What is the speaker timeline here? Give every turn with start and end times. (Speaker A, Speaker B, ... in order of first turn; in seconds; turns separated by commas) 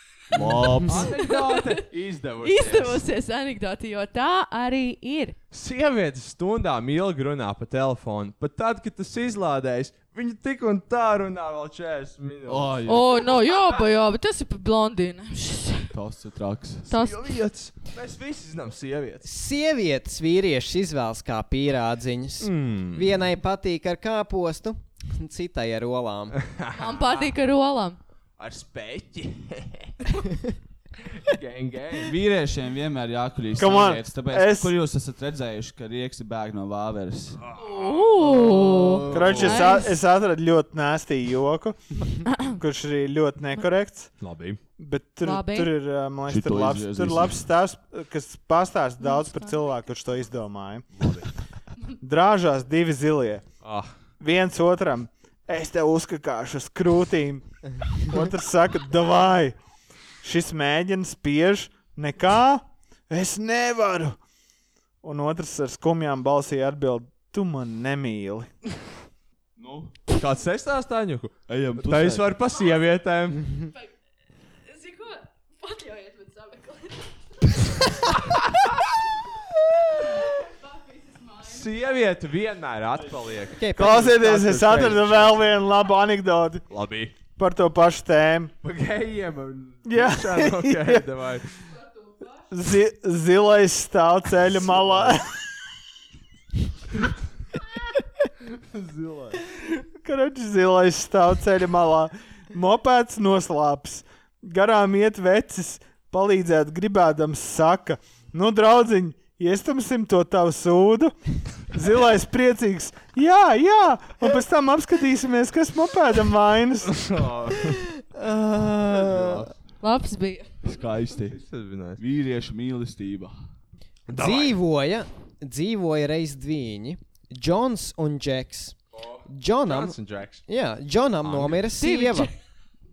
Speaker A: 0.3-1.1, Speaker B: 0.8-3.0, Speaker C: 0.9-1.8, Speaker C: 2.4-5.3, Speaker B: 5.5-12.8, Speaker A: 12.4-13.1, Speaker C: 12.8-15.9, Speaker A: 15.9-16.9, Speaker C: 16.9-17.2, Speaker B: 16.9-19.3, Speaker D: 19.2-26.4, Speaker B: 22.4-23.1, Speaker B: 26.4-27.3, Speaker C: 26.8-28.0, Speaker B: 28.4-29.9, Speaker B: 31.1-32.1, Speaker A: 32.0-37.4, Speaker E: 33.6-34.8, Speaker B: 37.4-39.4, Speaker C: 37.6-40.0, Speaker D: 38.4-39.2, Speaker E: 39.1-44.1, Speaker A: 39.1-39.7, Speaker C: 42.2-42.6, Speaker B: 44.2-44.6, Speaker E: 44.8-50.9, Speaker C: 45.2-45.7, Speaker A: 46.3-47.4, Speaker C: 49.0-49.5, Speaker B: 51.0-51.3, Speaker E: 52.0-53.4, Speaker B: 53.6-53.9, Speaker E: 54.2-59.5, Speaker E: 60.2-64.2, Speaker E: 65.0-68.5, Speaker A: 69.5-70.0, Speaker B: 70.1-73.5, Speaker A: 71.5-72.3, Speaker C: 74.7-77.0, Speaker B: 81.4-83.7, Speaker D: 83.5-85.4, Speaker E: 83.7-86.6, Speaker B: 86.7-87.2, Speaker E: 87.3-88.5, Speaker B: 88.6-91.6, Speaker E: 89.9-91.0, Speaker E: 92.5-95.4, Speaker B: 94.9-95.1, Speaker B: 98.5-99.4, Speaker E: 100.0-111.1, Speaker E: 111.7-117.0, Speaker B: 116.9-117.8, Speaker D: 117.7-119.5, Speaker B: 118.9-119.5, Speaker C: 119.8-120.5, Speaker A: 120.6-121.4, Speaker B: 121.3-122.0, Speaker A: 122.0-123.4, Speaker B: 124.1-124.6, Speaker D: 124.1-132.3, Speaker B: 128.9-130.4, Speaker B: 131.2-131.7, Speaker C: 131.8-132.3